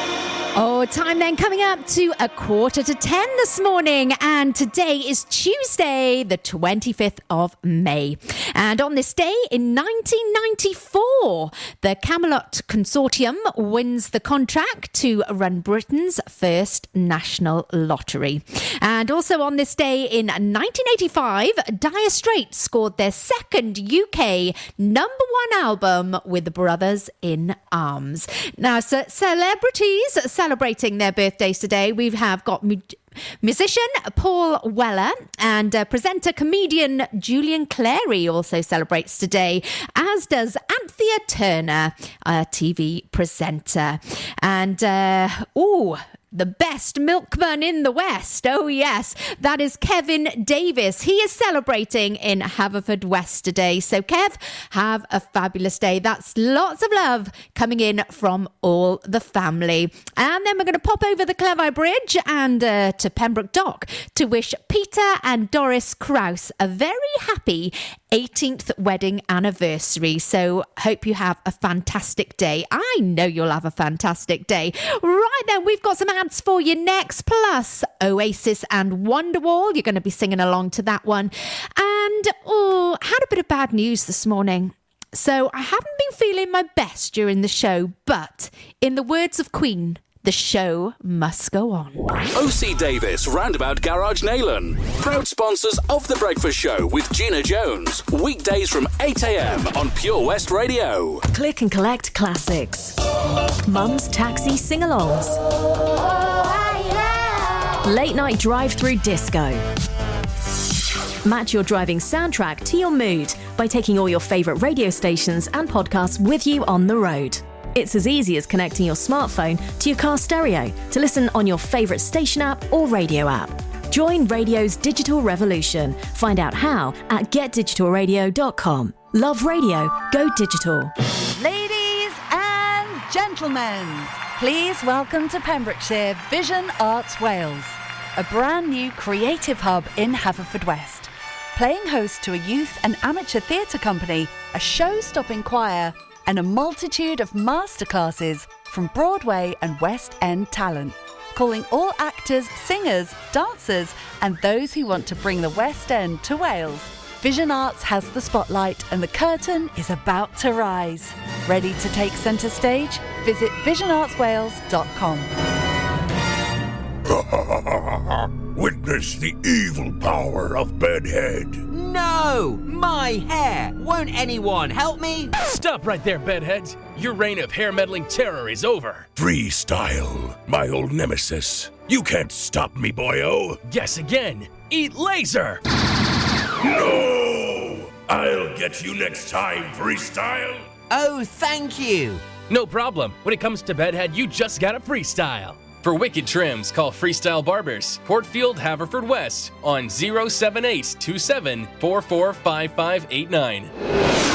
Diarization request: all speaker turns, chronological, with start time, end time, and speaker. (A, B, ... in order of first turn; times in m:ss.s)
0:00.5-1:32.1 A
1:32.3-1:41.2 B
1:41.3-1:42.9 C
1:43.6-1:45.4 C
1:47.8-1:49.6 C
1:51.2-2:10.9 C
2:11.4-2:45.3 D
2:47.2-2:51.6 E
2:51.7-2:55.3 F
2:55.4-2:59.1 G
2:59.1-3:03.6 E
3:03.6-3:05.6 G
3:06.6-3:10.6 E
3:10.9-3:12.2 F
3:12.5-3:23.7 G